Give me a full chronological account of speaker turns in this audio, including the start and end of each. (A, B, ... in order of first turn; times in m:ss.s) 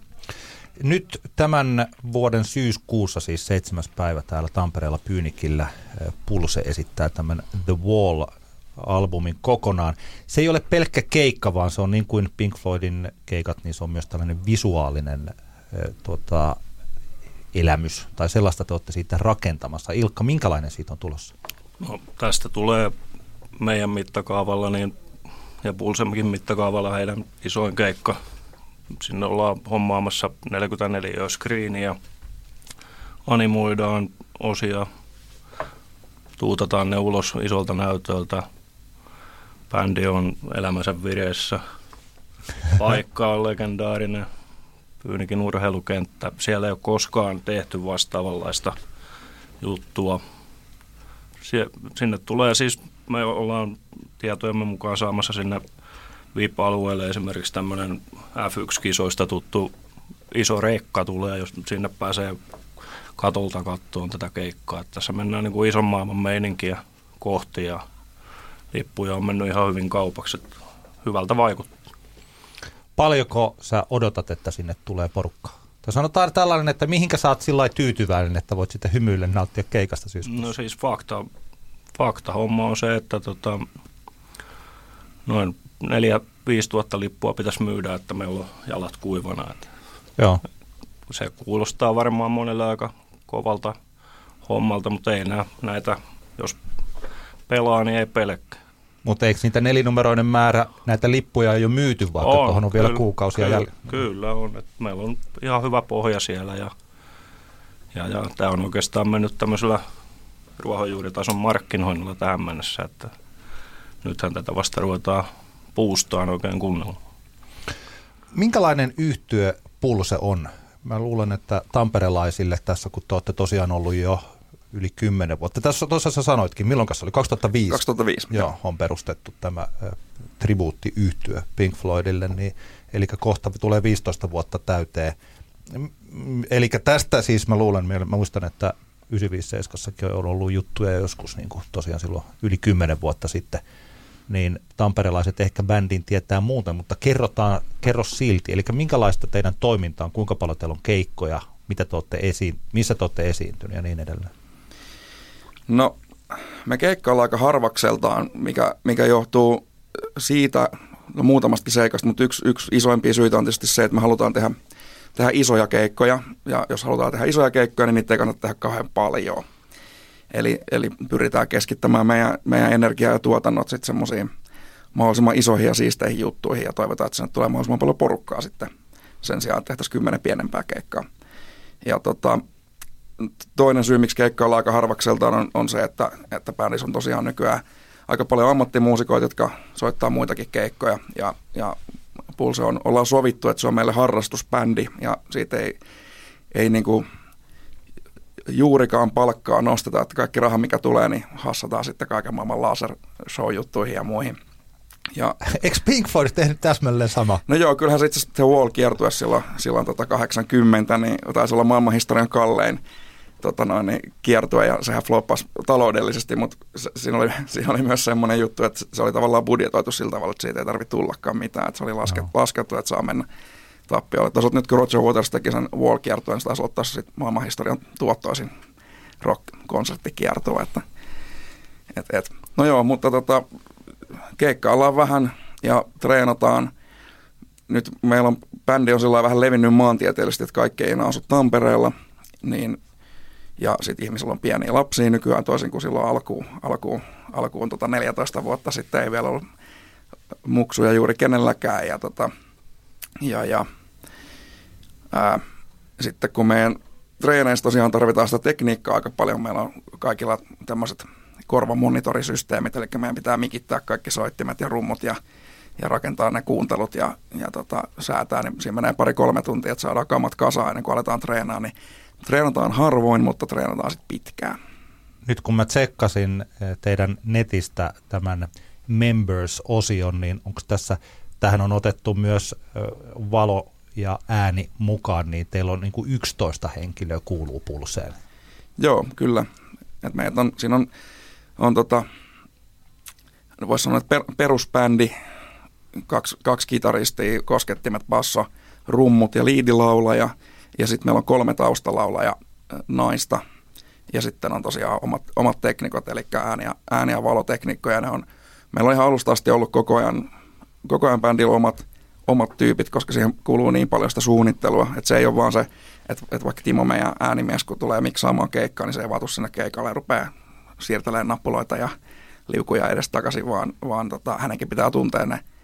0:00.8-0:16.6 A
0:17.5-0:21.3 A
0:21.8-0:22.9 B
0:23.6-0:24.9 B
0:25.6-0:28.2 B
0:28.9-0:32.0 B
0:33.2-0:34.9 B
0:36.4-0:38.4 B
0:39.7-0:41.6 B
0:42.7-0:44.2 B
0:45.0-0:48.7 B
0:49.6-0:50.2 B
0:51.4-0:55.6 B
0:56.3-0:59.7 B
1:00.3-1:02.4 B
1:03.2-1:07.8 B
1:08.7-1:10.5 B
1:11.0-1:11.7 B
1:13.0-1:20.4 A
1:20.2-1:21.2 B
1:21.9-1:23.6 B
1:25.2-1:29.7 B
1:30.2-1:30.4 A
1:31.1-1:33.8 B
1:34.4-1:36.6 B
1:37.5-1:38.6 B
1:39.0-1:43.7 A
1:42.2-1:46.7 B
1:47.9-1:49.8 B
1:50.6-1:53.1 B
1:54.0-1:57.0 B
1:58.3-2:15.2 A
2:07.7-2:08.4 C
2:15.7-2:23.6 A
2:24.3-2:34.3 A
2:35.7-2:36.0 C
2:36.6-2:44.6 C
2:45.2-2:49.4 C
2:50.3-2:54.3 C
2:54.9-2:58.7 C
2:59.2-3:01.0 C
3:01.8-3:02.4 C
3:03.2-3:11.8 C
3:12.4-3:15.8 C
3:16.5-3:17.0 C
3:18.5-3:24.4 C
3:25.4-3:27.4 A
3:27.5-3:32.8 C
3:33.4-3:43.2 C
3:43.9-3:48.5 C
3:49.2-3:50.8 C
3:51.9-3:53.4 C
3:54.4-3:56.7 C
3:57.7-4:02.8 C
4:03.6-4:09.4 C
4:10.4-4:12.3 C
4:13.2-4:13.6 C
4:15.1-4:15.4 C
4:16.0-4:25.2 C
4:25.8-4:34.6 C
4:35.2-4:48.2 A
4:48.8-4:49.5 C
4:50.0-4:50.9 C
4:51.6-4:52.0 C
4:53.6-4:55.1 C
4:56.1-5:03.4 C
5:04.1-5:10.3 C
5:10.8-5:21.9 C
5:22.5-5:25.4 C